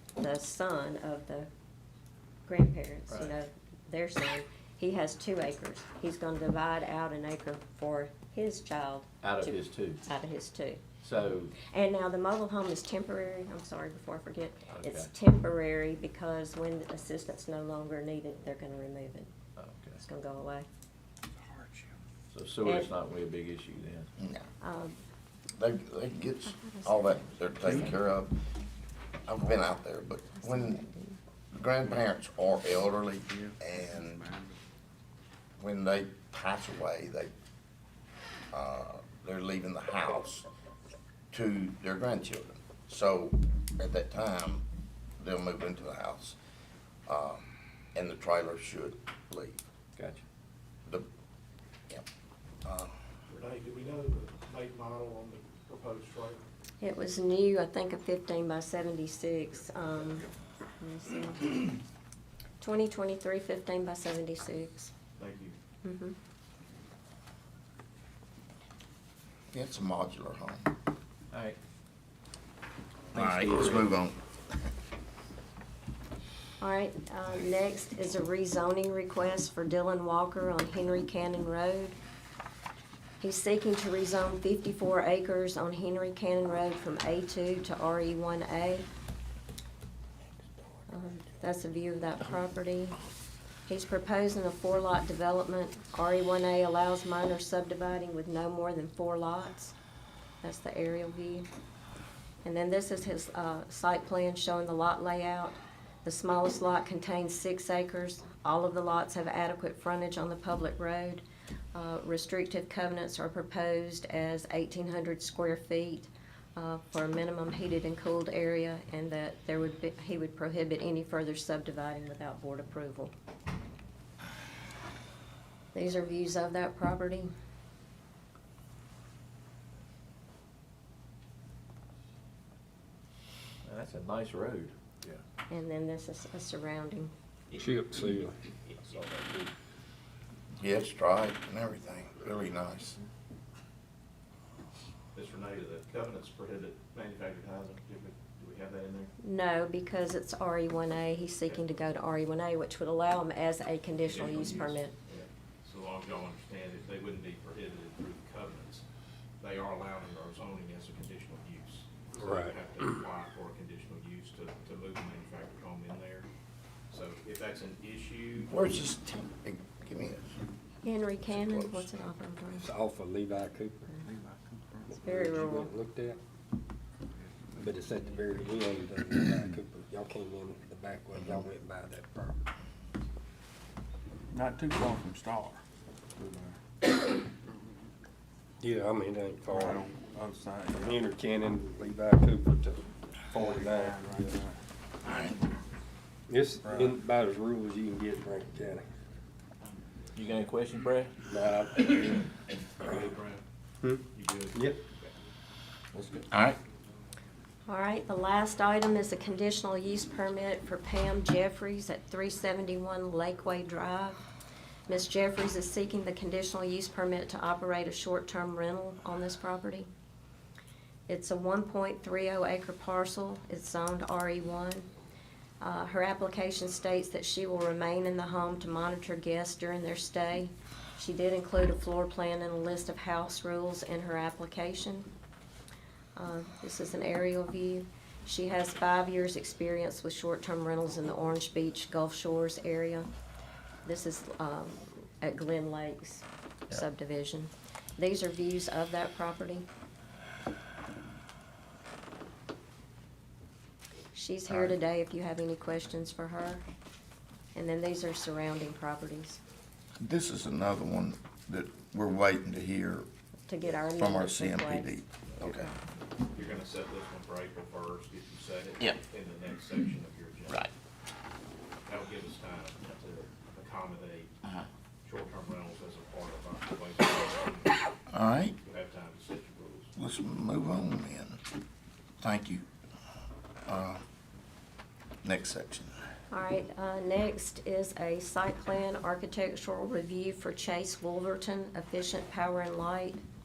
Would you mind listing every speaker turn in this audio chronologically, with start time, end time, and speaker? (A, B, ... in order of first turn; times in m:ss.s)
0:00.2-0:01.5 A
0:02.5-0:10.8 A
0:09.2-0:10.0 B
0:11.0-0:11.6 B
0:11.6-0:19.3 A
0:14.7-0:15.1 B
0:19.6-0:20.0 B
0:20.0-0:20.7 A
0:22.3-0:24.1 B
0:24.2-0:24.5 C
0:24.6-0:25.0 A
0:25.6-0:28.4 C
0:26.5-0:27.9 A
0:29.3-0:30.8 C
0:30.4-0:31.2 A
0:31.5-0:34.3 C
0:35.6-0:37.3 C
0:38.5-0:40.5 C
0:41.3-0:44.6 C
0:45.2-0:46.4 C
0:47.1-0:49.6 C
0:50.0-0:50.2 B
0:52.6-0:52.9 C
0:53.3-0:56.4 D
0:56.8-1:01.8 A
1:02.6-1:04.9 A
1:05.2-1:05.6 D
1:05.8-1:06.2 A
1:09.5-1:10.7 C
1:11.3-1:11.6 B
1:13.1-1:14.2 C
1:13.3-1:13.8 E
1:16.6-1:22.0 A
1:23.2-1:28.9 A
1:30.9-1:33.0 A
1:33.7-1:39.8 A
1:40.4-1:41.5 A
1:42.4-2:03.1 A
2:05.7-2:07.3 A
2:13.6-2:15.2 B
2:15.5-2:17.1 A
2:17.5-2:19.5 D
2:17.6-2:18.4 E
2:20.6-2:23.0 C
2:25.2-2:29.1 D
2:29.2-2:34.9 A
2:34.0-2:38.8 D
2:39.4-2:46.3 D
2:42.1-2:43.0 E
2:46.9-2:48.5 D
2:48.5-2:50.3 C
2:50.8-2:52.7 A
2:51.3-2:51.9 C
2:52.6-2:53.9 E
2:55.0-2:55.7 A
2:55.0-2:56.2 E
2:57.6-3:02.4 E
3:04.3-3:05.6 F
3:06.2-3:06.6 F
3:08.6-3:09.9 E
3:09.6-3:11.0 F
3:10.8-3:14.1 E
3:13.3-3:14.6 F
3:15.0-3:15.4 C
3:16.3-3:18.9 E
3:16.6-3:17.0 F
3:20.2-3:21.2 B
3:21.3-3:22.2 E
3:21.9-3:23.4 D
3:23.8-3:24.8 E
3:24.0-3:25.1 D
3:25.9-3:26.2 B
3:26.3-3:26.6 C
3:27.7-3:34.2 A
3:34.9-3:39.9 A
3:41.1-3:44.9 A
3:45.6-3:55.1 A
3:56.2-4:03.1 A
4:03.8-4:09.7 A
4:14.2-4:16.6 A
4:17.6-4:19.4 A
4:20.0-4:23.1 C
4:23.5-4:24.9 A
4:23.7-4:25.7 C
4:25.4-4:25.8 A
4:26.3-4:30.7 D
4:31.9-4:34.3 D
4:35.0-4:37.8 D
4:38.1-4:38.6 C
4:38.6-4:39.9 D
4:40.0-4:41.4 C
4:42.2-4:42.6 C
4:43.7-4:44.0 C
4:45.2-4:45.9 C
4:46.3-4:53.2 A